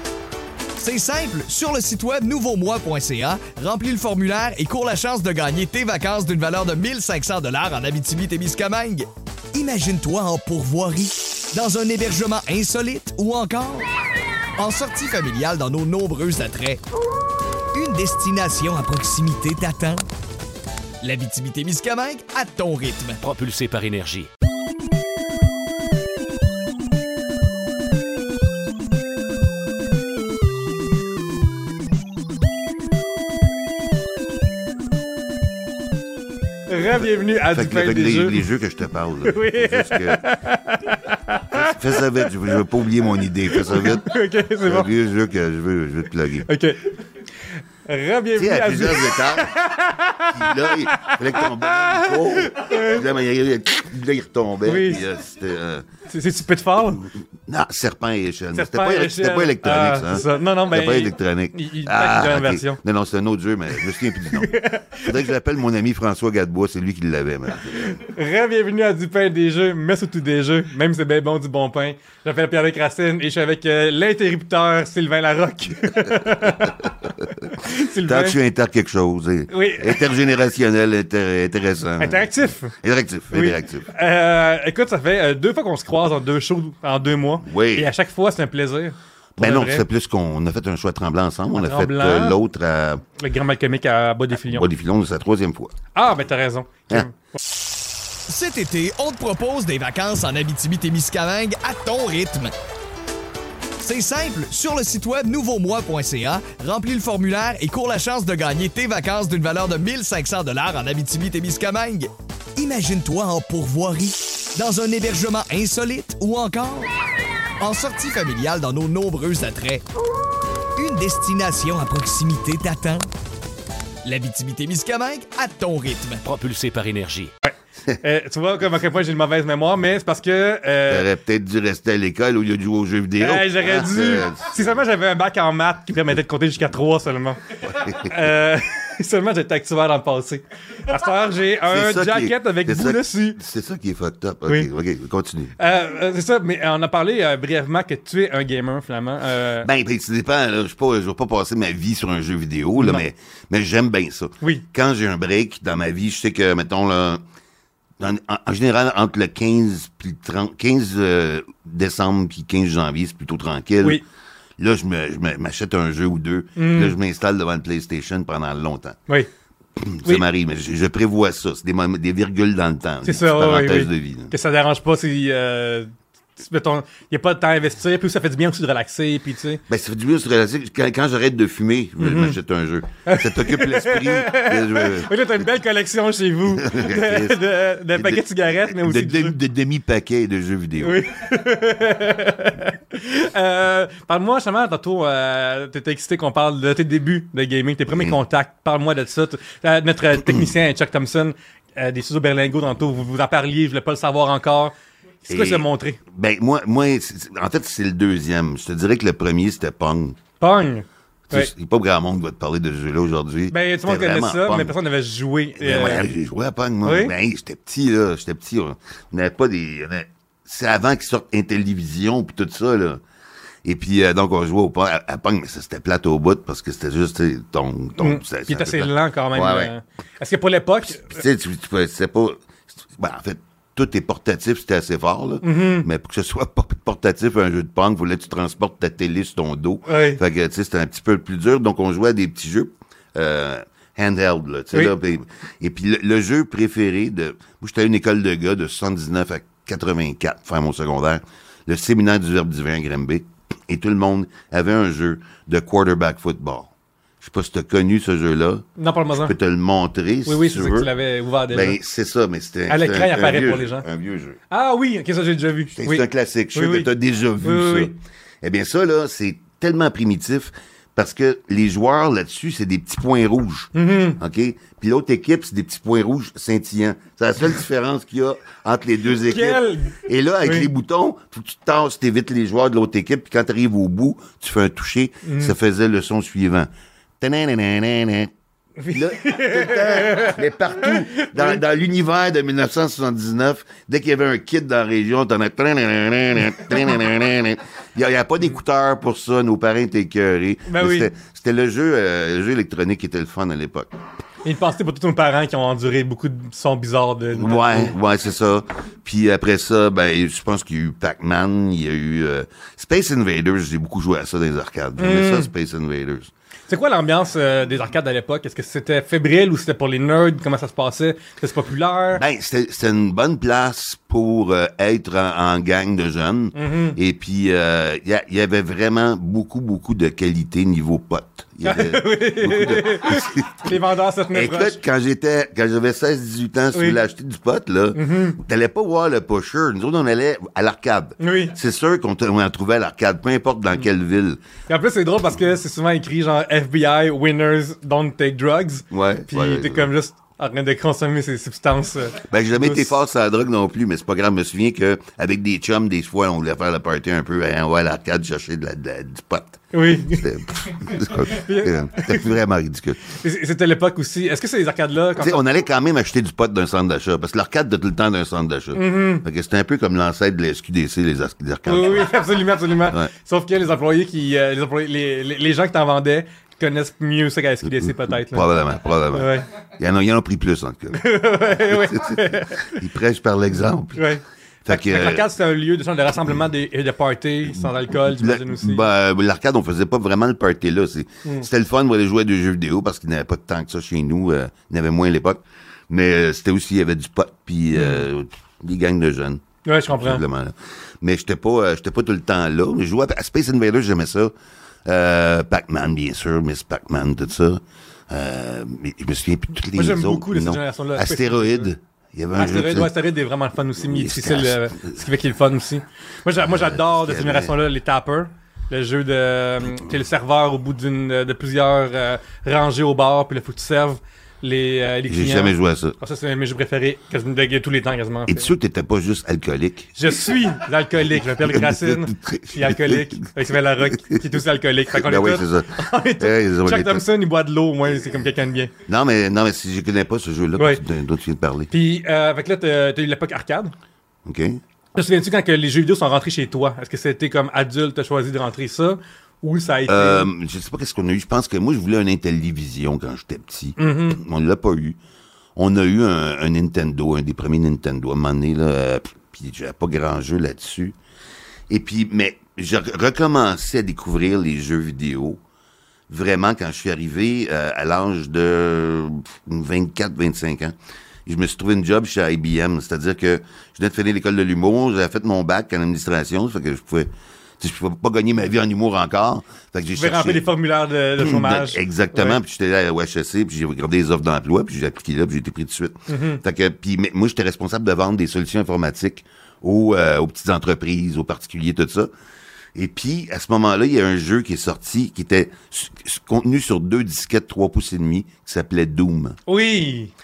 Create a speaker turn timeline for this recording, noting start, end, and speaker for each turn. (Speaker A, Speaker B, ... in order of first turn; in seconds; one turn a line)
Speaker A: 0.8-13.9
Speaker A: 14.6-16.8
Speaker A: 17.7-20.0
Speaker A: 21.0-23.2
Speaker B: 23.2-24.3
Speaker C: 36.7-38.4
Speaker D: 37.5-40.2
Speaker C: 39.2-42.3
Speaker D: 41.5-44.1
Speaker C: 43.5-44.9
Speaker D: 44.6-46.5
Speaker C: 46.4-46.9
Speaker C: 47.9-53.0
Speaker D: 48.4-49.6
Speaker D: 50.3-55.9
Speaker C: 54.6-55.0
Speaker C: 56.1-57.1
Speaker D: 57.5-68.0
Speaker C: 58.5-62.8
Speaker C: 64.3-65.1
Speaker C: 67.7-76.8
Speaker C: 77.5-78.4
Speaker D: 78.0-82.3
Speaker C: 79.5-80.0
Speaker C: 82.0-82.7
Speaker D: 82.8-83.9
Speaker C: 83.3-89.8
Speaker D: 87.4-87.9
Speaker D: 89.4-93.0
Speaker C: 91.5-92.4
Speaker C: 93.2-94.7
Speaker D: 94.4-95.7
Speaker C: 95.9-97.4
Speaker A: 98.3-102.5
Speaker A: 103.8-116.9
Speaker A: 117.6-119.8
Speaker A: 120.8-123.1
Speaker A: 124.0-126.2
Speaker B: 126.2-127.3
Speaker C: 127.5-131.1
Speaker D: 130.9-134.7
Speaker C: 133.2-143.4
Speaker D: 137.8-138.1
Speaker D: 141.7-145.5
Speaker C: 145.6-149.7
Speaker D: 149.6-157.2
Speaker C: 152.8-153.0
Speaker D: 158.0-164.0
Speaker D: 164.6-169.0
Speaker C: 166.6-166.9
Speaker D: 169.8-174.3
Speaker C: 173.0-179.6
Speaker D: 179.7-185.1
Speaker C: 182.0-182.3
Speaker C: 183.1-189.3
Speaker D: 186.6-187.4
Speaker D: 187.9-191.0
Speaker C: 190.8-204.7
Speaker D: 197.9-198.2
Speaker C: 205.2-206.0
Speaker D: 205.3-210.2
Speaker C: 210.4-211.5
Speaker D: 211.3-214.8
Speaker C: 213.5-216.1
Speaker D: 215.6-223.0
Speaker C: 216.8-217.1
Speaker D: 223.6-229.7
Speaker C: 228.0-231.2
Speaker D: 231.0-258.6
Speaker C: 235.4-235.9
Speaker C: 239.8-240.2
Speaker C: 258.8-259.3
Speaker D: 259.2-260.9
Speaker C: 260.2-261.8
Speaker D: 261.5-264.4
Speaker C: 262.7-263.8
Speaker C: 264.5-266.9
Speaker D: 265.8-286.7
Speaker C: 267.4-267.9
Speaker C: 273.7-274.2
Speaker C: 279.2-280.7
Speaker C: 285.2-285.5
Speaker D: 287.2-288.3
Speaker C: 288.8-291.6
Speaker D: 288.9-303.9
Speaker C: 300.6-301.1
Speaker C: 304.4-307.9
Speaker D: 307.4-316.3
Speaker C: 315.0-315.5
Speaker C: 316.7-322.2
Speaker D: 322.1-333.8
Speaker C: 326.5-327.0
Speaker C: 331.6-334.8
Speaker D: 334.3-344.4
Speaker C: 337.9-338.4
Speaker C: 341.2-341.5
Speaker C: 344.7-352.9
Speaker D: 348.9-349.9
Speaker D: 352.3-363.1
Speaker C: 359.7-360.2
Speaker C: 360.9-362.3
Speaker C: 363.1-365.4
Speaker D: 365.2-372.2
Speaker C: 368.7-369.2
Speaker C: 371.7-378.4
Speaker D: 377.7-381.0
Speaker C: 379.1-379.5
Speaker C: 380.9-382.7
Speaker D: 381.6-384.1
Speaker C: 383.9-388.8
Speaker D: 384.6-385.3
Speaker D: 387.5-404.3
Speaker C: 397.7-398.0
Speaker C: 399.6-400.2
Speaker D: 404.9-412.9
Speaker C: 409.7-411.7
Speaker C: 412.4-428.5
Speaker D: 413.8-415.0
Speaker D: 416.5-417.5
Speaker D: 425.1-425.9
Speaker D: 428.3-430.0
Speaker C: 430.0-438.7
Speaker D: 431.4-433.3
Speaker D: 434.0-434.2
Speaker D: 434.9-437.0
Speaker D: 438.9-441.7
Speaker C: 440.6-440.8
Speaker C: 441.7-443.7
Speaker D: 444.2-444.6
Speaker C: 444.9-450.3
Speaker D: 449.9-455.0
Speaker C: 453.8-454.2
Speaker D: 455.6-460.9
Speaker D: 461.7-465.4
Speaker D: 466.1-470.7
Speaker D: 471.2-480.5
Speaker C: 479.9-482.4
Speaker D: 481.2-492.1
Speaker C: 486.1-486.4
Speaker D: 492.7-499.4
Speaker C: 499.5-500.1